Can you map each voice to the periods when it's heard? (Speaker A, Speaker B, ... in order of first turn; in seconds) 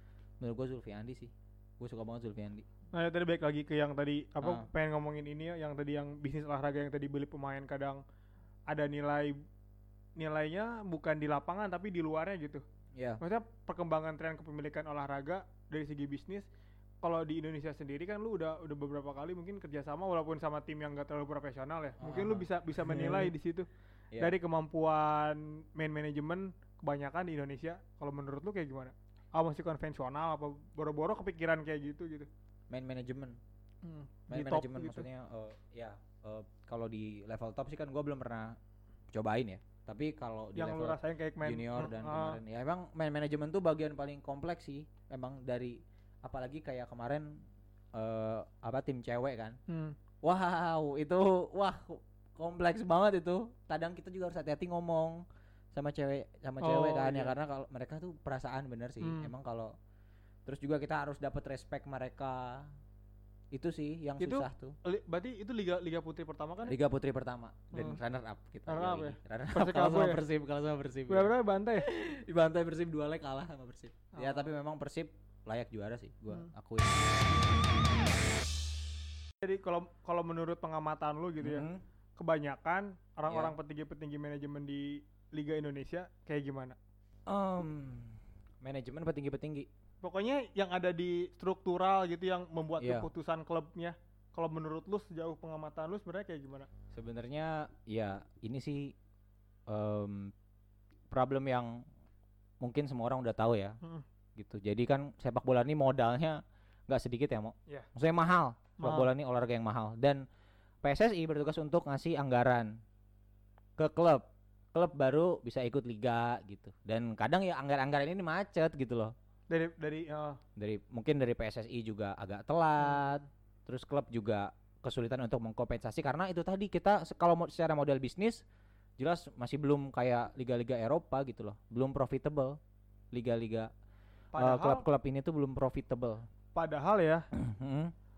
Speaker A: 0.4-2.6, 4.4-4.7, 12.9-13.2, 22.0-23.3, 32.7-33.4, 34.3-38.6, 39.1-47.4, 47.9-49.6, 50.2-55.2, 55.7-59.7, 60.5-62.7, 63.5-64.8, 66.7-77.5, 81.4-81.8, 83.3-83.5, 87.3-89.7, 92.8-93.1, 96.9-98.9, 99.7-100.3, 101.1-101.8, 102.6-103.8, 104.3-110.2, 110.8-112.8, 113.8-119.1, 120.6-128.4, 129.0-132.6, 133.1-133.7, 134.4-136.2, 137.3-137.9
Speaker B: 2.9-8.0, 8.7-9.3, 10.2-12.6, 13.2-16.5, 17.0-23.7, 24.2-32.3, 33.8-35.1, 40.5-42.4, 49.7-50.0, 56.6-57.3, 59.0-59.3, 64.2-66.8, 67.7-68.0, 68.7-70.2, 71.1-71.8, 74.1-74.4, 79.4-81.7, 82.2-86.8, 90.0-96.7, 108.8-109.1, 119.5-120.4, 122.8-123.2, 134.3-134.8, 136.5-137.2